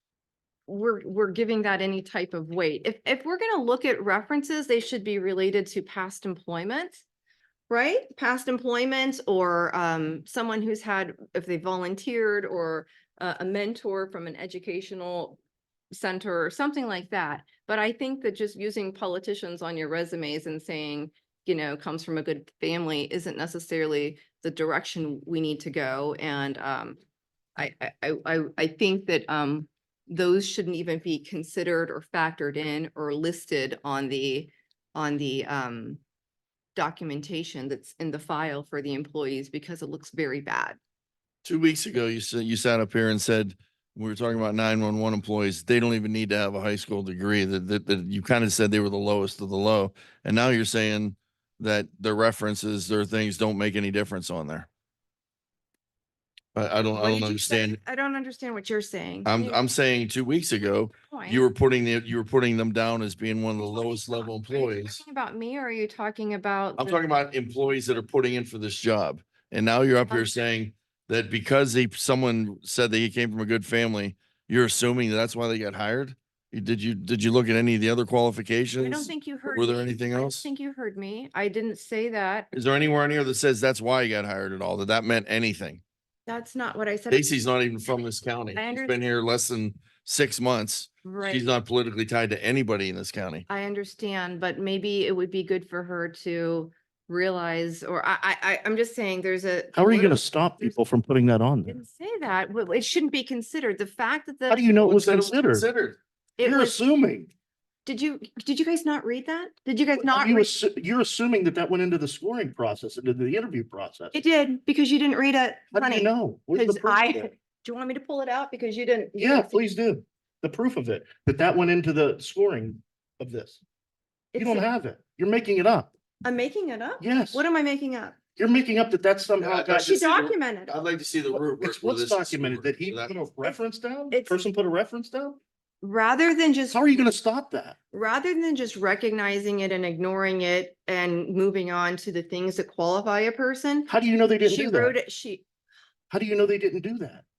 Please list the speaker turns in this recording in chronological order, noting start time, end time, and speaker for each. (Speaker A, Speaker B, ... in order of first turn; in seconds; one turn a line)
Speaker A: 0.7-7.0
Speaker A: 7.7-15.4
Speaker A: 15.9-27.0
Speaker A: 27.6-36.0
Speaker A: 36.7-40.8
Speaker B: 41.4-54.7
Speaker B: 56.5-57.8
Speaker A: 56.9-59.6
Speaker B: 59.2-65.0
Speaker A: 61.0-61.5
Speaker A: 63.6-67.0
Speaker B: 66.8-80.5
Speaker A: 78.8-82.5
Speaker B: 82.5-85.8
Speaker A: 86.3-87.3
Speaker B: 87.1-93.4
Speaker A: 88.5-89.0
Speaker A: 91.0-91.5
Speaker A: 93.5-100.6
Speaker C: 99.7-101.8
Speaker A: 101.7-104.7
Speaker C: 104.5-105.7
Speaker B: 104.8-106.0
Speaker A: 106.4-106.8
Speaker C: 106.4-107.3
Speaker A: 107.8-110.5
Speaker C: 110.0-114.2
Speaker A: 114.1-119.6
Speaker C: 115.7-117.3
Speaker C: 119.2-123.6
Speaker A: 124.3-124.7
Speaker C: 124.4-125.9
Speaker A: 126.2-128.2
Speaker C: 127.0-127.4
Speaker C: 128.4-130.0
Speaker B: 129.4-133.1
Speaker A: 129.8-130.7
Speaker C: 131.3-135.4
Speaker A: 134.1-134.4
Speaker A: 135.8-136.8
Speaker C: 136.7-137.8
Speaker A: 137.9-143.9
Speaker C: 143.9-144.9
Speaker A: 144.4-145.4
Speaker C: 146.1-147.2